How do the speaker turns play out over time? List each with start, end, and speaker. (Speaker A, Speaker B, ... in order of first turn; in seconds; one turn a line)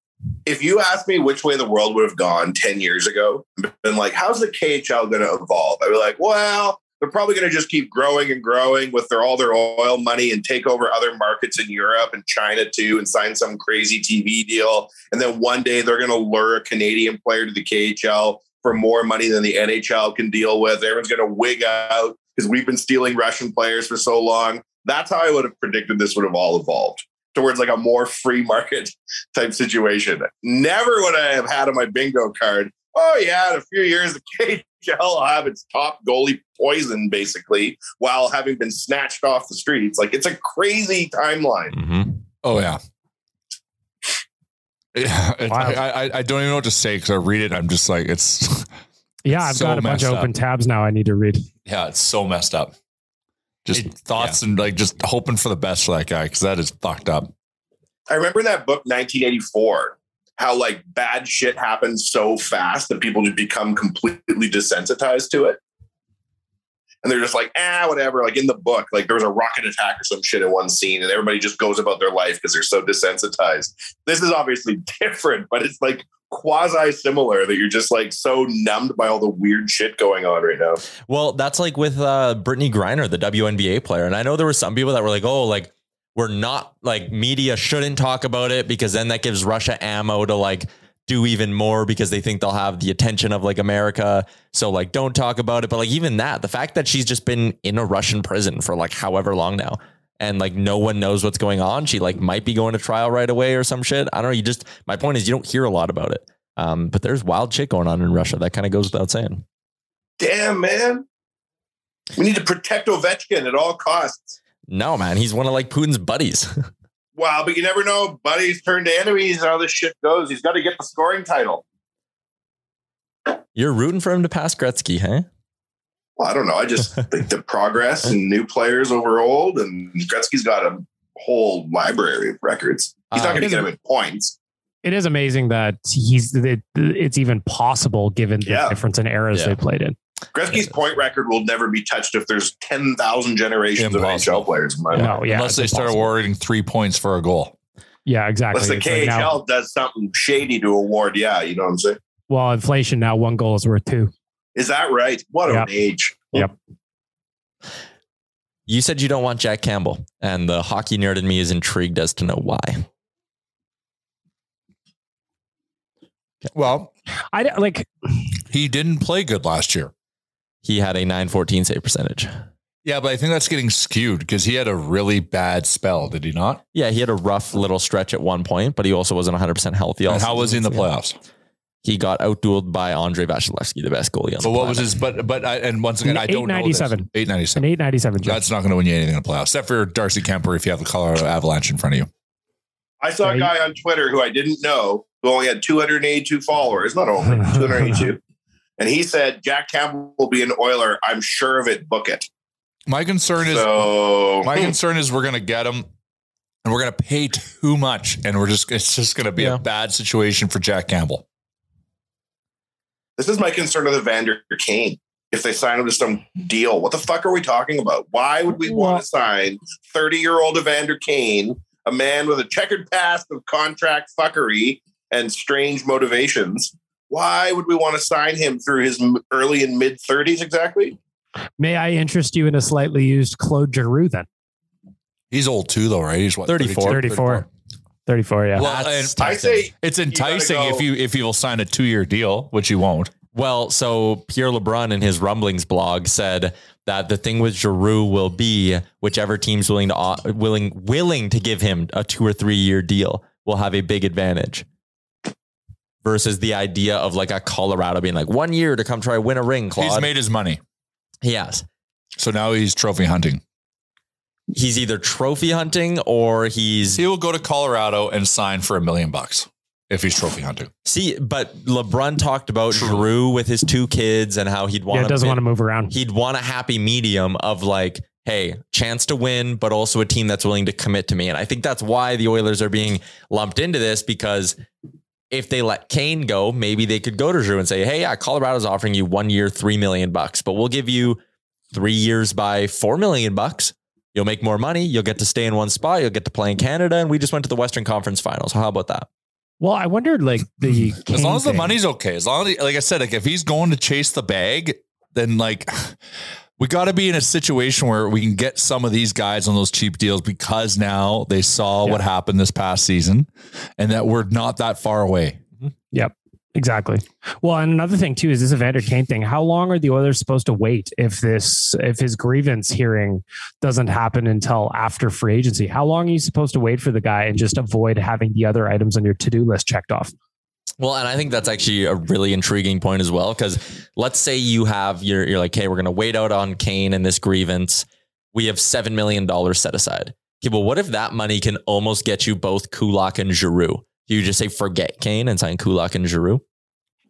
Speaker A: 0.5-41.7
Speaker B: 41.7-42.2
Speaker C: 42.4-42.8
Speaker C: 44.9-48.7
Speaker D: 45.5-45.8
Speaker D: 49.2-51.5
Speaker C: 49.3-50.3
Speaker C: 51.6-52.7
Speaker C: 53.6-57.3
Speaker B: 53.7-54.4
Speaker A: 58.1-65.6
Speaker A: 67.0-80.8
Speaker B: 81.0-109.4
Speaker A: 110.2-111.0
Speaker A: 112.2-114.4
Speaker B: 114.7-116.6
Speaker A: 117.2-121.6
Speaker B: 123.5-125.2
Speaker A: 126.2-134.3
Speaker B: 133.1-133.6
Speaker D: 134.8-139.9
Speaker A: 138.4-138.8
Speaker B: 139.3-139.6
Speaker A: 140.3-145.2
Speaker C: 143.8-147.5
Speaker D: 144.9-146.1
Speaker D: 148.1-149.4
Speaker A: 148.5-152.0
Speaker D: 152.3-154.1
Speaker A: 154.6-156.4
Speaker B: 158.7-162.8
Speaker C: 166.5-166.9
Speaker D: 167.3-167.9
Speaker C: 168.5-169.9
Speaker B: 170.6-172.3
Speaker C: 172.8-176.6
Speaker B: 176.7-180.8
Speaker C: 180.1-181.2
Speaker B: 181.8-184.9
Speaker C: 184.4-187.7
Speaker D: 186.0-188.4
Speaker C: 188.2-192.1
Speaker A: 193.0-198.2
Speaker D: 193.2-193.5
Speaker D: 197.4-198.1
Speaker A: 198.8-202.3
Speaker C: 202.9-205.9
Speaker A: 203.4-204.7
Speaker C: 206.6-211.2
Speaker A: 213.2-231.0
Speaker D: 218.7-219.0
Speaker D: 231.6-234.2
Speaker C: 235.3-237.4
Speaker B: 236.5-237.1
Speaker D: 236.9-237.4
Speaker D: 238.1-238.7
Speaker C: 238.5-243.1
Speaker B: 238.6-239.5
Speaker A: 239.2-240.8
Speaker B: 243.3-254.6
Speaker B: 256.0-260.1
Speaker C: 259.8-260.6
Speaker B: 261.2-261.6
Speaker C: 262.1-263.4
Speaker B: 264.5-267.0
Speaker C: 266.9-270.7
Speaker B: 270.8-284.6
Speaker C: 272.7-273.1
Speaker D: 274.9-275.9
Speaker B: 285.3-291.2
Speaker B: 291.7-299.1
Speaker D: 299.6-301.8
Speaker C: 300.6-306.0
Speaker C: 306.6-315.4
Speaker D: 315.9-330.1
Speaker B: 330.8-346.4